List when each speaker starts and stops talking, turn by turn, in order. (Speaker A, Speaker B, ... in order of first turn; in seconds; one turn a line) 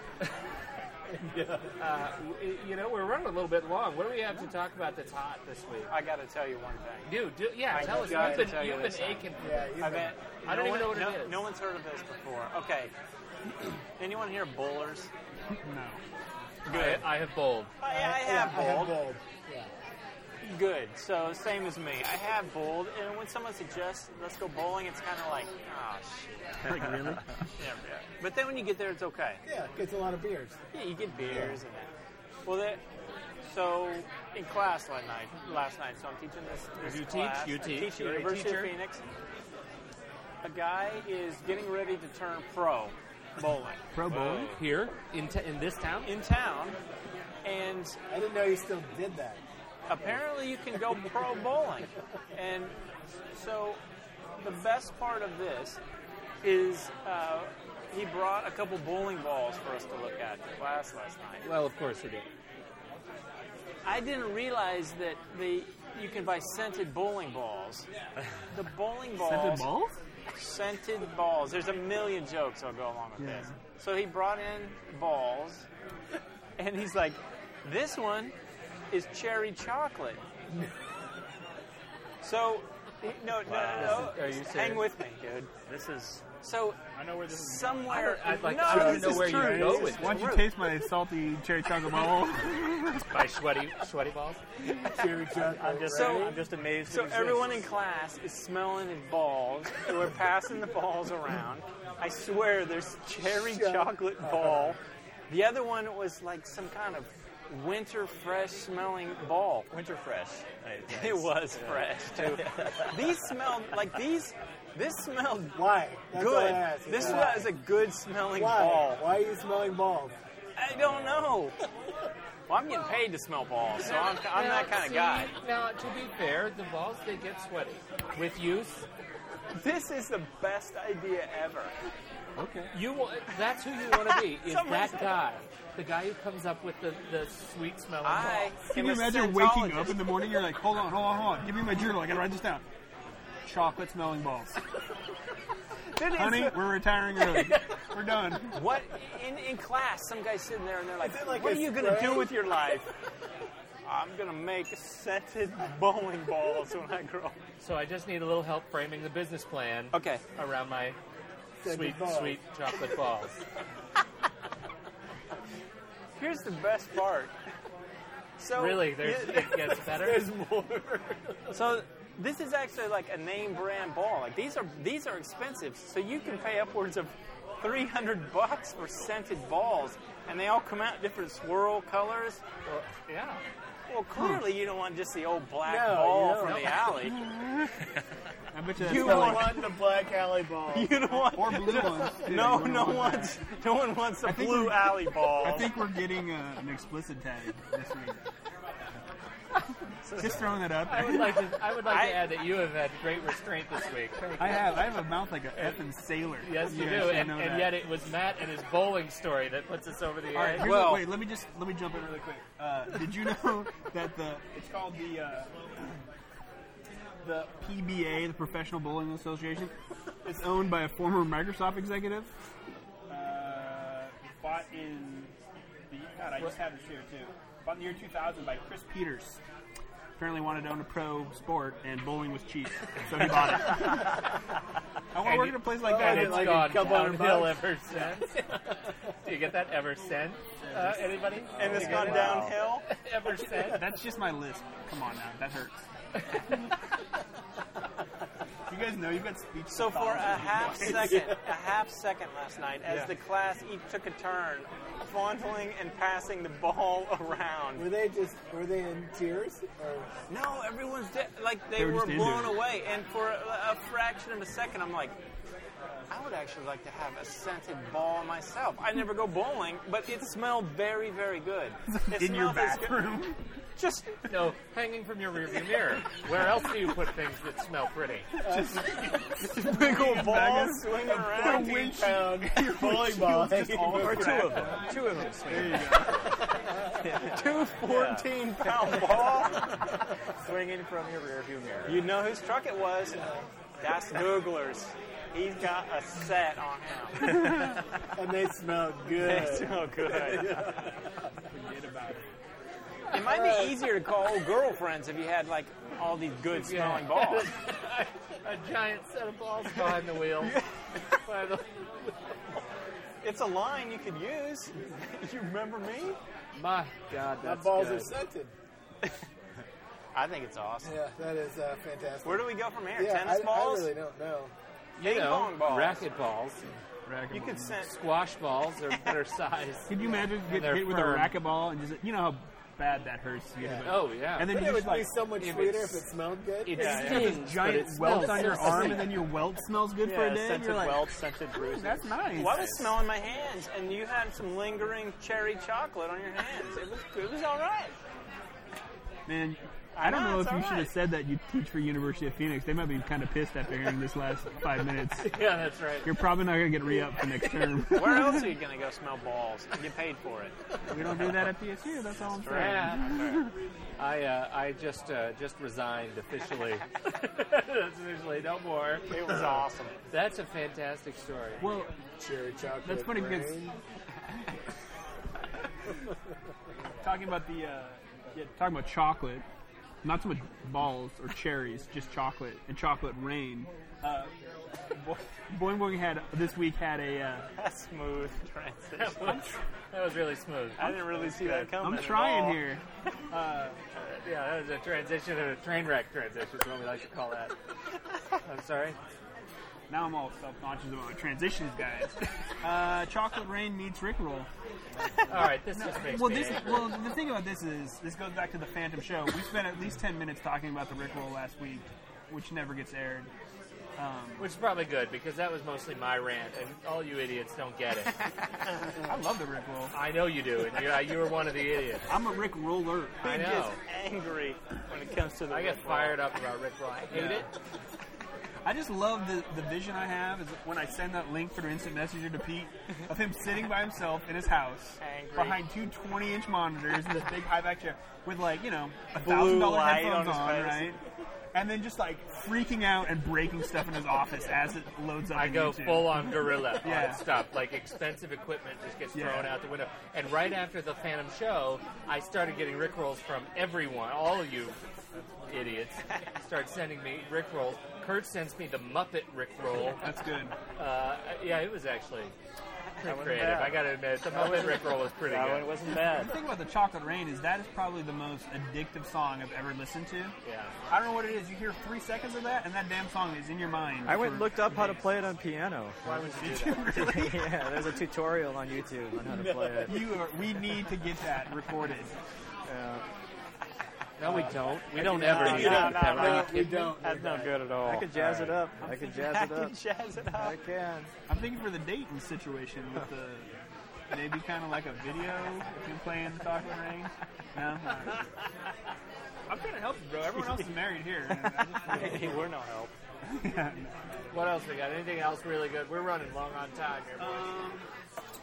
Speaker A: 1.2-1.7
Speaker B: 1.8-5.9
Speaker C: 5.9-7.1
Speaker B: 7.1-9.8
Speaker C: 7.7-12.9
Speaker A: 7.7-8.6
Speaker A: 9.4-10.2
Speaker B: 10.4-11.4
Speaker C: 14.0-15.1
Speaker D: 15.5-16.0
Speaker C: 16.7-17.1
Speaker B: 16.7-17.7
Speaker C: 17.8-19.0
Speaker A: 17.9-19.7
Speaker C: 20.4-26.8
Speaker E: 26.6-27.2
Speaker C: 27.6-29.4
Speaker A: 29.4-30.6
Speaker C: 30.7-31.9
Speaker A: 31.3-31.6
Speaker C: 32.5-32.8
Speaker C: 33.4-39.0
Speaker B: 36.8-38.7
Speaker C: 40.4-44.3
Speaker D: 43.9-44.6
Speaker B: 44.2-46.1
Speaker C: 46.0-46.8
Speaker C: 47.4-48.0
Speaker A: 48.1-49.4
Speaker C: 49.9-52.8
Speaker C: 53.3-53.8
Speaker C: 54.4-55.8
Speaker C: 56.4-61.4
Speaker B: 61.4-62.3
Speaker C: 63.9-67.9
Speaker C: 68.5-69.7
Speaker D: 69.2-70.0
Speaker C: 70.3-75.7
Speaker D: 73.2-73.6
Speaker C: 76.6-78.3
Speaker C: 78.9-80.2
Speaker C: 82.2-85.5
Speaker E: 83.5-84.1
Speaker B: 83.8-84.9
Speaker E: 85.7-86.2
Speaker C: 86.4-90.8
Speaker E: 87.0-87.8
Speaker B: 87.9-90.3
Speaker D: 88.7-93.0
Speaker B: 93.0-94.4
Speaker A: 94.9-96.4
Speaker E: 95.3-97.7
Speaker C: 95.9-104.8
Speaker A: 103.3-104.7
Speaker C: 105.3-109.7
Speaker E: 109.7-113.0
Speaker C: 110.9-119.0
Speaker A: 115.5-117.6
Speaker A: 118.3-120.2
Speaker C: 120.6-121.6
Speaker E: 120.7-121.3
Speaker C: 122.5-125.3
Speaker B: 123.8-128.9
Speaker C: 129.6-131.7
Speaker D: 132.4-132.7
Speaker B: 132.7-138.5
Speaker C: 134.1-135.2
Speaker C: 138.0-140.3
Speaker D: 138.7-142.7
Speaker D: 143.4-144.6
Speaker D: 146.1-148.6
Speaker C: 148.5-152.9
Speaker A: 151.0-152.4
Speaker C: 153.8-157.4
Speaker B: 157.6-161.0
Speaker C: 159.9-160.2
Speaker A: 161.6-162.4
Speaker B: 161.7-163.4
Speaker C: 166.2-167.3
Speaker C: 168.4-169.2
Speaker B: 168.5-170.3
Speaker A: 169.1-171.6
Speaker C: 171.5-182.4
Speaker B: 182.7-183.4
Speaker C: 183.9-187.2
Speaker D: 184.1-184.5
Speaker A: 185.6-186.9
Speaker B: 186.4-186.8
Speaker D: 186.9-187.8
Speaker D: 188.5-189.6
Speaker C: 188.8-189.8
Speaker A: 188.8-193.3
Speaker C: 190.7-195.8
Speaker D: 191.3-193.4
Speaker D: 194.2-198.2
Speaker C: 200.1-200.5
Speaker D: 200.1-201.4
Speaker B: 200.8-204.8
Speaker C: 201.9-202.3
Speaker D: 204.4-207.8
Speaker B: 206.4-210.7
Speaker D: 210.3-216.0
Speaker C: 210.6-211.1
Speaker D: 217.2-222.3
Speaker D: 223.1-225.3
Speaker D: 225.9-229.4
Speaker D: 230.2-234.2
Speaker D: 235.1-237.1
Speaker B: 235.2-243.9
Speaker A: 235.8-237.7
Speaker D: 240.6-242.4
Speaker E: 241.5-242.5
Speaker C: 241.5-242.9
Speaker A: 241.6-242.2
Speaker D: 243.4-245.8
Speaker D: 248.7-251.3
Speaker C: 249.7-257.9
Speaker A: 257.8-260.1
Speaker C: 260.3-265.1
Speaker D: 261.8-262.6
Speaker C: 266.1-273.0
Speaker D: 271.9-273.5
Speaker C: 273.8-274.2
Speaker B: 274.3-278.3
Speaker D: 278.4-286.2
Speaker A: 278.4-278.9
Speaker C: 279.4-282.2
Speaker A: 281.6-284.5
Speaker E: 283.7-289.0
Speaker C: 287.1-289.7
Speaker E: 290.4-292.1
Speaker C: 291.9-297.6
Speaker D: 297.3-297.8
Speaker A: 298.1-300.9
Speaker C: 299.1-300.9
Speaker D: 301.5-302.3
Speaker B: 303.1-303.9
Speaker C: 303.1-307.5
Speaker B: 306.6-310.6
Speaker B: 311.2-312.4
Speaker C: 313.2-316.2
Speaker B: 316.6-318.2
Speaker A: 317.4-318.5
Speaker C: 320.1-321.0
Speaker A: 320.9-324.5
Speaker C: 322.2-323.9
Speaker B: 325.0-326.6
Speaker C: 325.0-326.1
Speaker D: 327.1-327.5
Speaker E: 327.3-327.7
Speaker C: 327.3-328.0
Speaker B: 327.9-331.3
Speaker D: 329.9-335.3
Speaker A: 330.0-330.2
Speaker A: 333.6-337.0
Speaker B: 333.8-334.8
Speaker B: 335.4-336.0
Speaker B: 336.6-339.2
Speaker D: 336.7-342.7
Speaker C: 336.8-337.2
Speaker E: 340.0-343.0
Speaker C: 342.3-347.9
Speaker D: 349.3-355.3
Speaker C: 349.9-350.9
Speaker B: 355.2-356.1
Speaker D: 356.1-358.6
Speaker C: 357.9-360.6
Speaker D: 360.9-363.5
Speaker C: 362.2-363.4
Speaker B: 362.5-363.2
Speaker B: 364.0-369.6
Speaker C: 369.1-369.9
Speaker B: 370.1-371.6
Speaker D: 371.6-372.0
Speaker A: 372.2-373.7
Speaker D: 372.8-373.7
Speaker D: 377.0-379.4
Speaker D: 380.0-384.3
Speaker D: 384.9-387.5
Speaker C: 387.6-389.3
Speaker B: 389.0-391.7
Speaker D: 389.2-389.6
Speaker C: 390.8-392.6
Speaker D: 391.8-393.8
Speaker B: 394.0-397.6
Speaker B: 398.4-399.0
Speaker D: 399.9-404.5
Speaker B: 405.3-407.0
Speaker D: 405.8-413.3
Speaker D: 414.0-414.5
Speaker B: 414.4-418.2
Speaker D: 419.0-419.9
Speaker B: 419.9-422.1
Speaker D: 422.1-423.3
Speaker B: 423.2-423.8
Speaker C: 423.2-426.2
Speaker B: 425.5-427.5
Speaker D: 427.1-427.5
Speaker D: 428.6-441.0
Speaker C: 435.0-435.6
Speaker C: 439.2-441.0
Speaker D: 441.5-447.2
Speaker B: 445.3-454.8
Speaker D: 449.1-449.6
Speaker B: 455.5-460.1
Speaker D: 460.0-460.6
Speaker B: 460.8-462.4
Speaker B: 463.0-465.7
Speaker E: 463.0-466.3
Speaker D: 466.1-470.4
Speaker B: 470.4-470.8
Speaker D: 470.9-475.0
Speaker E: 474.1-480.0
Speaker B: 476.1-477.0
Speaker D: 476.1-477.8
Speaker A: 479.3-480.1
Speaker D: 479.9-482.1
Speaker E: 482.7-483.1
Speaker B: 484.2-487.0
Speaker A: 484.3-487.7
Speaker C: 484.9-488.1
Speaker E: 487.8-489.8
Speaker D: 488.1-489.0
Speaker C: 489.0-490.6
Speaker E: 490.3-491.1
Speaker D: 491.3-493.5
Speaker D: 494.1-498.2
Speaker D: 499.5-502.5
Speaker C: 501.9-502.9
Speaker D: 503.2-504.1
Speaker B: 504.3-507.6
Speaker D: 507.2-507.9